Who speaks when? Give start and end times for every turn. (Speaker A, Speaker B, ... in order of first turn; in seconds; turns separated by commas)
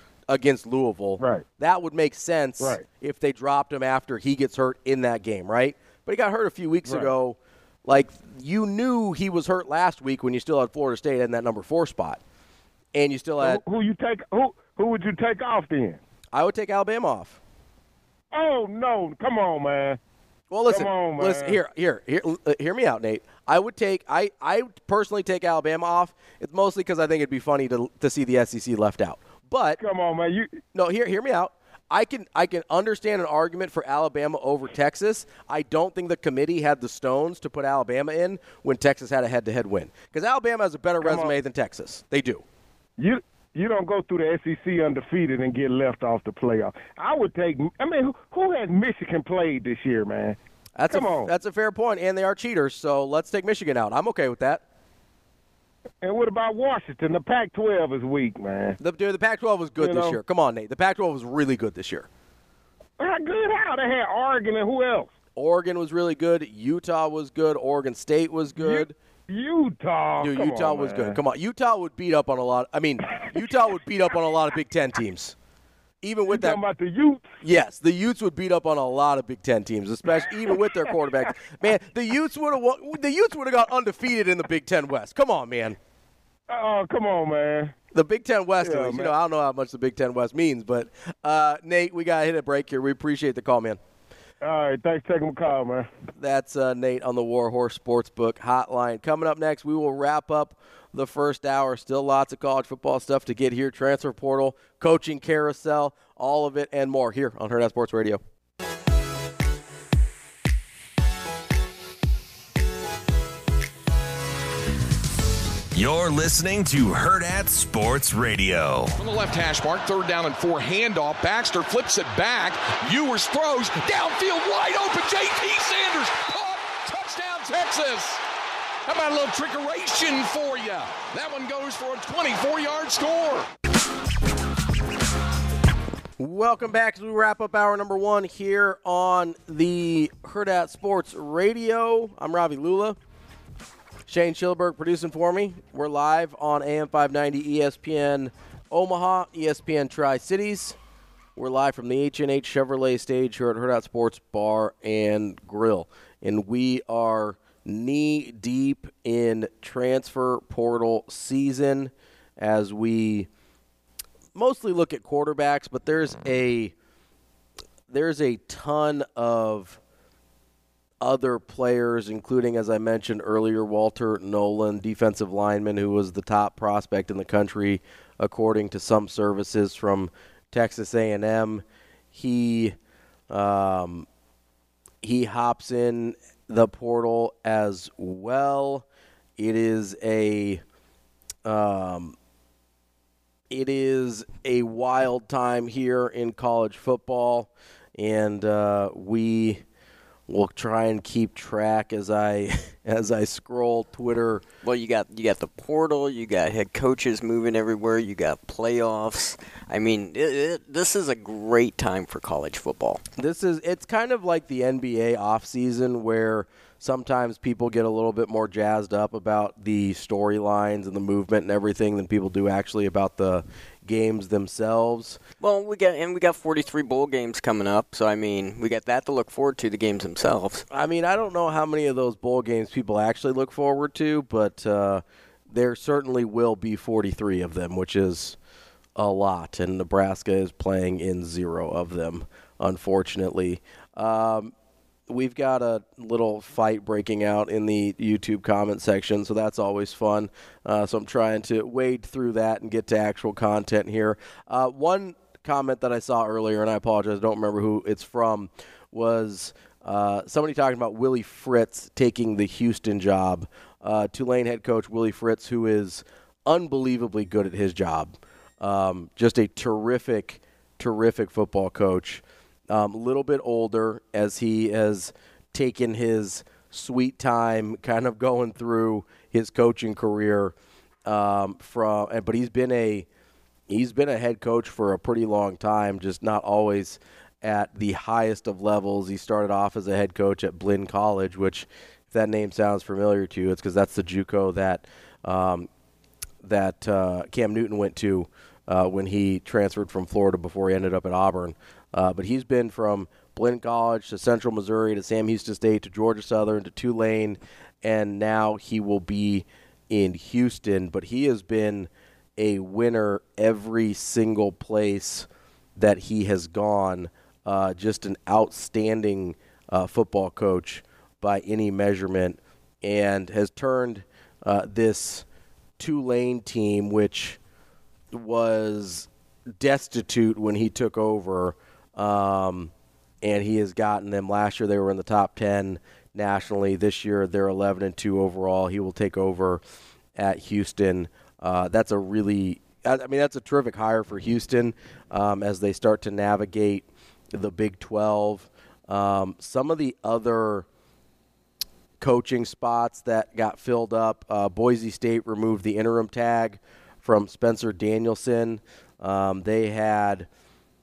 Speaker A: 0.3-12.2, Speaker B: 1.2-1.4, Speaker B: 2.6-2.8, Speaker B: 6.8-7.1, Speaker A: 12.9-13.6, Speaker B: 13.4-16.0, Speaker A: 16.3-17.4, Speaker B: 18.3-20.0, Speaker A: 20.5-29.8, Speaker B: 20.7-21.6, Speaker B: 29.8-30.5, Speaker A: 30.7-42.4, Speaker B: 41.0-41.3, Speaker B: 43.0-50.4, Speaker A: 50.8-54.6, Speaker B: 50.9-51.3, Speaker B: 56.0-58.8, Speaker A: 58.8-62.1, Speaker B: 59.8-60.2, Speaker B: 63.0-65.1, Speaker A: 65.3-68.9, Speaker B: 68.6-71.2, Speaker A: 70.2-75.3, Speaker A: 76.0-76.6, Speaker B: 76.3-77.2, Speaker A: 77.4-85.8, Speaker B: 86.5-87.7, Speaker A: 87.9-93.8, Speaker B: 88.6-89.1, Speaker B: 94.4-95.9, Speaker A: 96.2-108.2, Speaker C: 115.7-118.9, Speaker D: 119.0-128.2, Speaker D: 128.8-133.5, Speaker A: 136.2-143.0, Speaker A: 144.1-150.8, Speaker A: 151.3-163.3, Speaker A: 164.3-166.7, Speaker A: 167.9-169.8, Speaker A: 171.0-181.6, Speaker A: 182.1-182.7, Speaker A: 183.3-184.1, Speaker A: 185.0-188.8, Speaker A: 189.4-190.6, Speaker A: 191.4-192.1, Speaker A: 193.5-199.6, Speaker A: 200.3-204.4, Speaker E: 204.6-213.0, Speaker A: 213.2-225.2, Speaker E: 225.4-230.6, Speaker A: 230.7-238.4, Speaker A: 239.0-244.5, Speaker A: 245.1-280.5, Speaker A: 281.1-283.1, Speaker A: 283.7-295.7, Speaker A: 296.4-325.2, Speaker A: 325.8-327.4, Speaker A: 328.1-332.7, Speaker A: 333.2-339.6, Speaker A: 340.1-350.6, Speaker A: 352.0-360.3